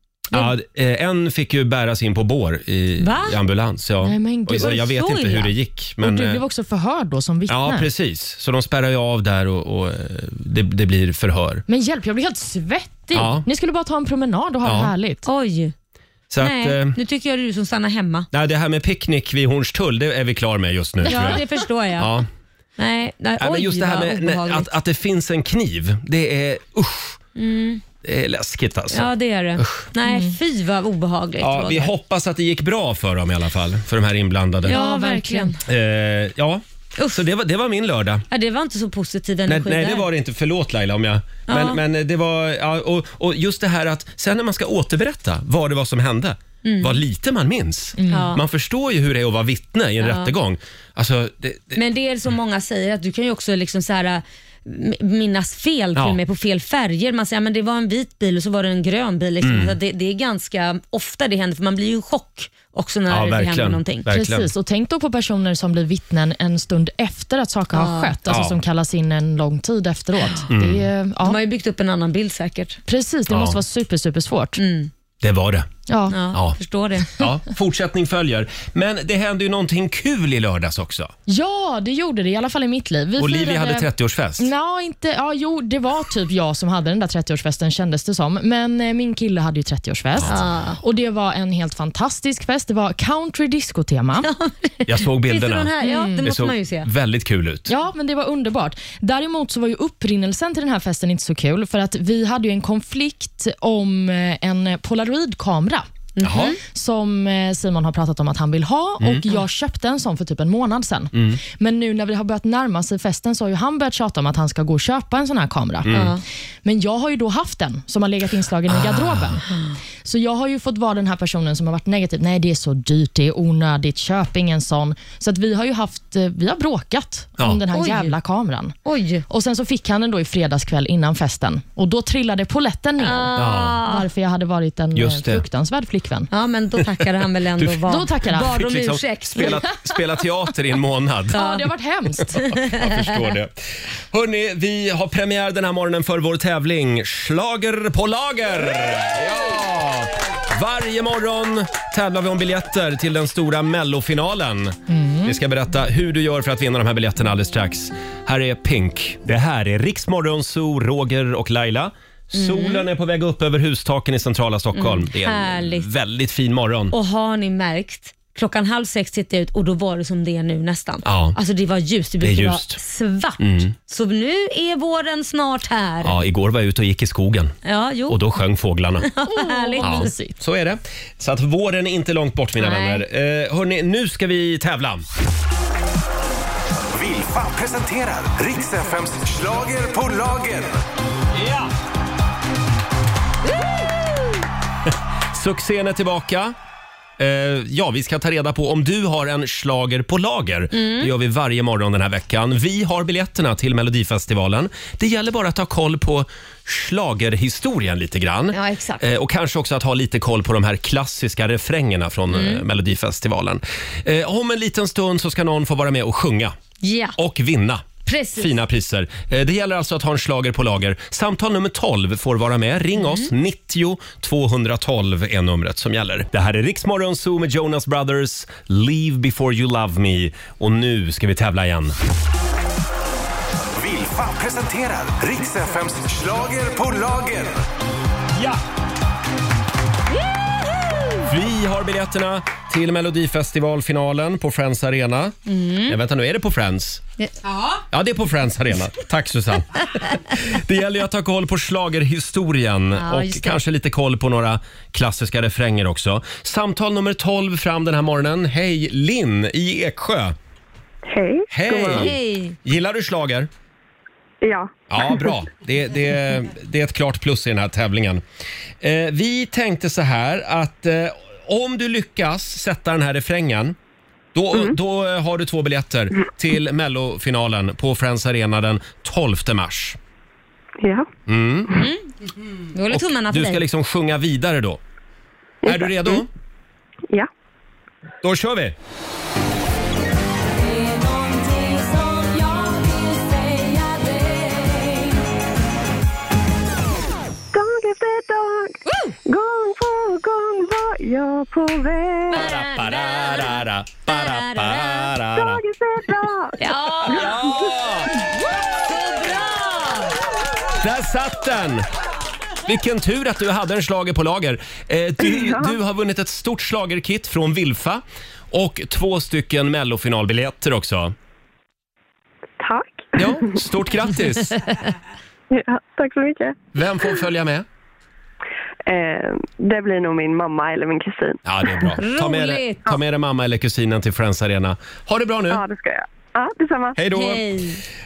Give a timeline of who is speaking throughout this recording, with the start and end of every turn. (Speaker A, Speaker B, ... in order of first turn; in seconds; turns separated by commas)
Speaker A: 0.3-6.4, Speaker B: 3.0-3.4, Speaker C: 4.0-4.8, Speaker B: 4.6-5.5, Speaker C: 6.0-7.9, Speaker A: 7.5-11.6, Speaker C: 11.7-15.2, Speaker A: 13.1-13.4, Speaker A: 14.7-14.9, Speaker B: 15.2-15.7, Speaker A: 16.3-17.0, Speaker B: 16.4-18.3, Speaker A: 18.3-21.4, Speaker B: 21.1-22.1, Speaker A: 22.0-22.3, Speaker B: 22.8-24.7, Speaker A: 23.4-27.2, Speaker B: 27.4-27.8, Speaker A: 28.0-29.9, Speaker B: 28.9-31.9, Speaker C: 30.1-30.4, Speaker A: 31.4-34.8, Speaker B: 34.6-35.6, Speaker C: 34.7-35.6, Speaker A: 35.7-38.3, Speaker B: 38.3-40.1, Speaker A: 39.5-51.8, Speaker B: 41.5-41.8, Speaker B: 46.6-47.0, Speaker C: 48.0-48.3, Speaker B: 48.1-48.4, Speaker B: 50.0-50.3, Speaker B: 51.8-64.1, Speaker A: 59.4-59.7, Speaker A: 63.1-64.5, Speaker C: 64.1-71.4, Speaker B: 67.7-68.2, Speaker A: 68.3-68.6, Speaker A: 70.5-70.8, Speaker B: 71.2-72.8, Speaker C: 72.9-74.6, Speaker A: 73.3-73.6, Speaker B: 74.6-74.9, Speaker A: 75.2-75.7, Speaker C: 75.9-76.2, Speaker B: 76.1-77.2, Speaker A: 77.1-81.1, Speaker C: 81.3-94.3, Speaker A: 83.2-84.5, Speaker A: 90.2-90.4, Speaker B: 90.3-90.8, Speaker B: 94.2-96.9, Speaker A: 94.9-95.7, Speaker C: 95.8-96.2, Speaker A: 96.2-97.7, Speaker C: 97.7-105.9, Speaker B: 106.2-106.6, Speaker A: 106.2-106.5, Speaker C: 106.5-116.1, Speaker A: 109.0-109.3, Speaker A: 111.1-111.4, Speaker A: 115.8-116.2, Speaker B: 115.9-116.2, Speaker C: 116.6-119.5, Speaker A: 118.7-119.4, Speaker C: 120.0-128.8, Speaker B: 127.7-128.1, Speaker B: 128.8-129.2, Speaker C: 129.3-136.3, Speaker B: 133.0-134.1, Speaker A: 133.4-133.8, Speaker A: 134.9-135.4, Speaker B: 136.3-139.6, Speaker C: 137.8-138.6, Speaker A: 138.3-141.4, Speaker C: 141.3-142.4, Speaker B: 141.3-141.7, Speaker B: 142.4-143.0, Speaker A: 142.4-166.9, Speaker C: 154.9-155.3, Speaker B: 162.3-162.8, Speaker B: 164.8-165.9, Speaker B: 166.9-176.2, Speaker A: 171.0-171.4, Speaker A: 172.2-172.8, Speaker A: 173.4-173.7, Speaker A: 176.0-177.6, Speaker B: 177.6-178.2, Speaker A: 178.1-179.1, Speaker B: 179.1-180.2, Speaker C: 179.2-180.3, Speaker A: 179.8-185.1, Speaker B: 182.6-183.0, Speaker D: 186.9-190.8, Speaker A: 191.4-191.7, Speaker A: 195.3-196.6, Speaker A: 197.2-216.6, Speaker B: 200.7-201.1, Speaker B: 208.5-209.0, Speaker B: 212.3-212.6, Speaker B: 216.8-217.2, Speaker A: 217.2-231.9, Speaker B: 218.1-218.5, Speaker B: 223.0-223.3, Speaker D: 233.8-237.6, Speaker A: 241.2-247.0, Speaker B: 245.5-246.0, Speaker A: 247.9-260.4, Speaker B: 253.0-253.6, Speaker E: 261.1-262.1, Speaker A: 261.5-263.5, Speaker B: 261.9-262.6, Speaker E: 264.4-265.4, Speaker A: 264.9-268.2, Speaker A: 268.8-273.8, Speaker A: 274.4-280.0, Speaker E: 280.8-281.1, Speaker A: 281.3-281.9, Speaker B: 281.7-282.1, Speaker B: 282.7-283.6, Speaker A: 282.9-284.8, Speaker E: 285.6-286.2, Speaker A: 285.7-286.3, Speaker A: 288.2-288.8, Speaker B: 290.9-292.9, Speaker B: 293.6-294.9, Speaker E: 297.5-302.5, Speaker A: 302.3-305.6, Speaker B: 302.3-305.1, Speaker E: 305.3-307.7, Speaker B: 306.6-307.4, Speaker A: 307.0-308.1, Speaker B: 308.8-310.1, Speaker A: 310.8-311.9, Speaker A: 312.7-321.1, Speaker E: 315.2-315.8, Speaker E: 322.6-323.6, Speaker A: 323.2-324.6, Speaker E: 325.5-326.6, Speaker A: 326.8-327.6, Speaker E: 328.9-331.8, Speaker A: 331.4-335.6, Speaker B: 332.0-332.8, Speaker E: 335.5-337.0, Speaker A: 337.0-337.4, Speaker B: 337.1-337.8